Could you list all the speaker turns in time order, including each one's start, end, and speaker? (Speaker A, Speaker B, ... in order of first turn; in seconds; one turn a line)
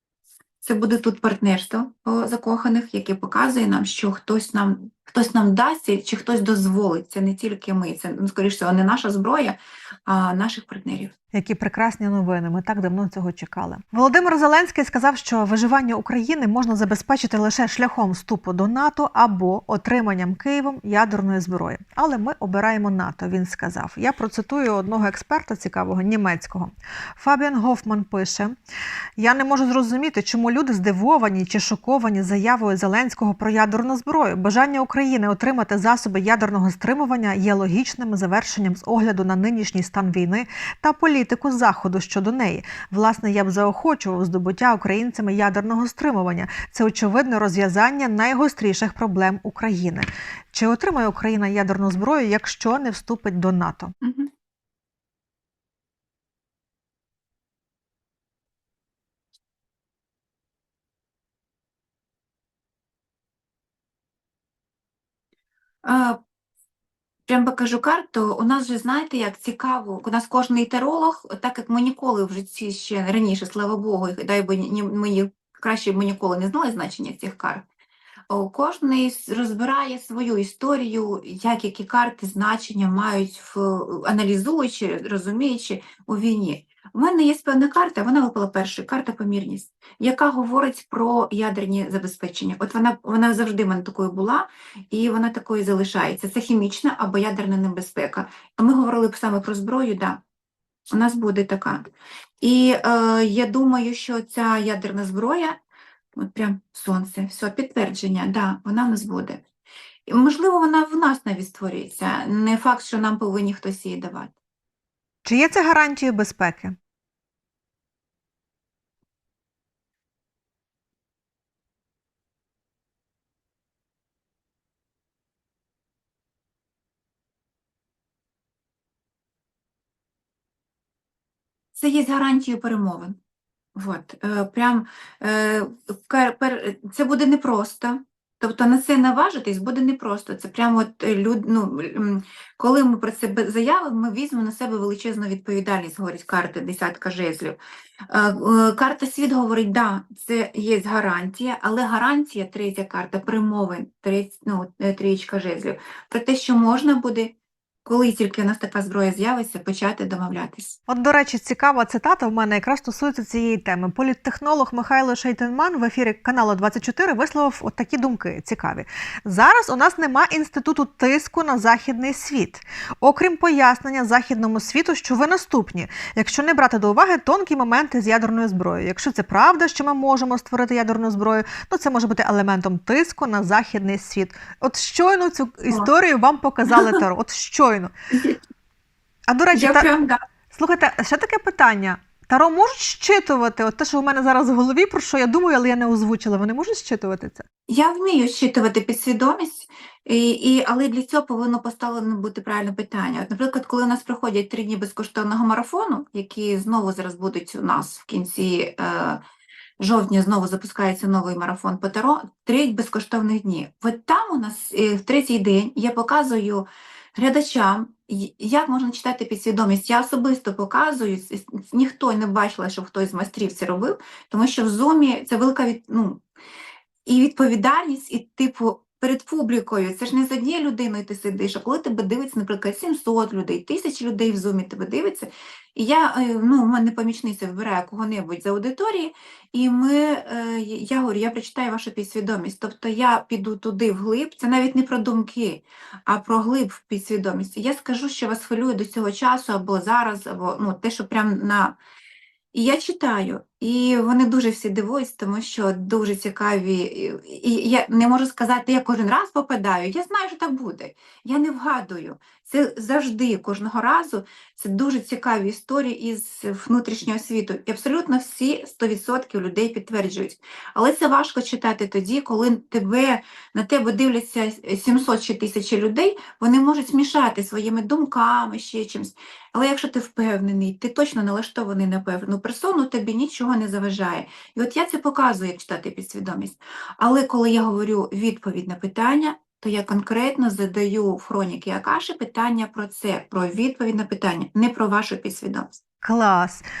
Speaker A: 0.6-11.1
Speaker B: 11.3-28.6
Speaker B: 29.2-53.9
Speaker A: 54.0-54.3
Speaker A: 65.8-66.2
Speaker A: 67.3-77.7
Speaker A: 78.3-100.2
Speaker A: 100.9-101.8
Speaker A: 102.4-105.6
Speaker A: 106.2-109.4
Speaker A: 110.1-114.3
Speaker B: 115.2-116.8
Speaker A: 131.7-133.2
Speaker A: 133.8-147.6
Speaker A: 148.1-157.3
Speaker A: 157.8-160.8
Speaker B: 160.9-187.9
Speaker A: 186.7-187.0
Speaker A: 188.1-188.4
Speaker B: 189.3-189.9
Speaker A: 189.5-190.2
Speaker B: 190.5-197.4
Speaker A: 197.7-209.2
Speaker A: 209.8-226.2
Speaker A: 227.1-251.8
Speaker A: 252.5-295.8
Speaker B: 296.0-296.6